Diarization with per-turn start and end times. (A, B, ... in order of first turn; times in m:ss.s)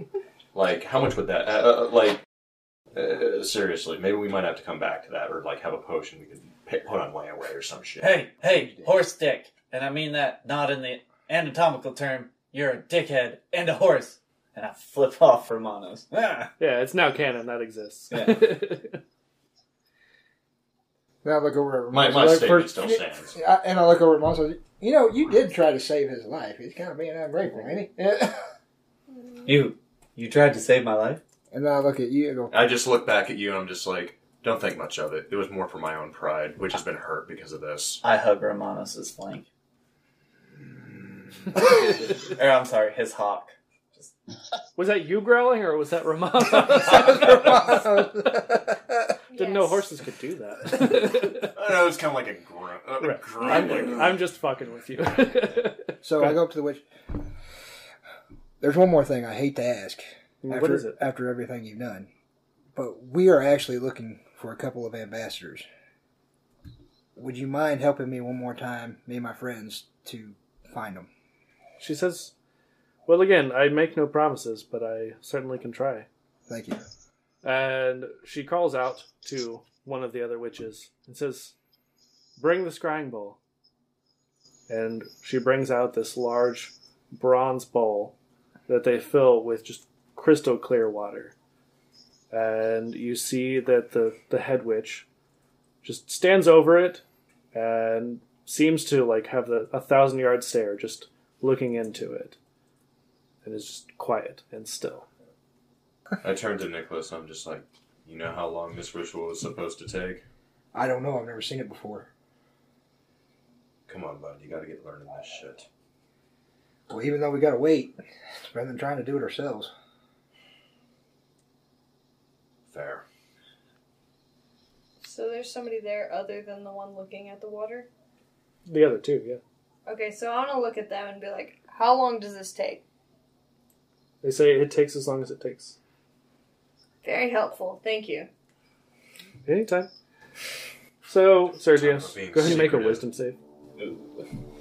0:00.5-0:02.2 A
0:02.9-0:08.3 A
0:08.0-0:16.5 B
0:08.4-0:08.9 C
0:16.6-0:19.0 D
0:18.1-0:18.6 B
0:21.2-0:28.4 C
0:21.9-0:23.4 A
0:29.4-0:31.2 B
0:31.5-0:32.5 C
0:32.5-0:38.0 A
0:38.0-0:39.5 B
0:41.6-0:44.1 B
0:44.8-0:48.5 D
0:47.1-0:49.0 C
0:49.3-0:49.8 E
0:49.4-0:51.5 D
0:51.3-0:54.2 A
0:53.0-0:56.4 D
0:53.6-0:53.9 C
0:56.0-0:56.9 C
0:58.6-1:02.1 C
1:00.4-1:01.0 D
1:02.8-1:05.7 C
1:07.2-1:11.1 C
1:11.8-1:12.3 D
1:13.1-1:16.1 D
1:16.5-1:16.8 C
1:17.4-1:21.6 D
1:22.4-1:23.4 D
1:24.7-1:28.2 D
1:28.7-1:31.3 D
1:32.3-1:35.1 D
1:35.8-1:37.0 D
1:37.5-1:42.4 D
1:43.4-1:45.1 D
1:46.2-1:50.2 A
1:50.7-1:52.1 C
1:53.9-1:55.7 A
1:56.9-1:59.7 C
2:02.7-2:03.0 A
2:05.0-2:07.9 E
2:08.7-2:09.4 D
2:09.9-2:12.8 E
2:14.2-2:15.8 D
2:17.0-2:18.3 E
2:19.5-2:19.9 D
2:21.1-2:23.4 D
2:21.7-2:23.0 A
2:23.8-2:24.3 B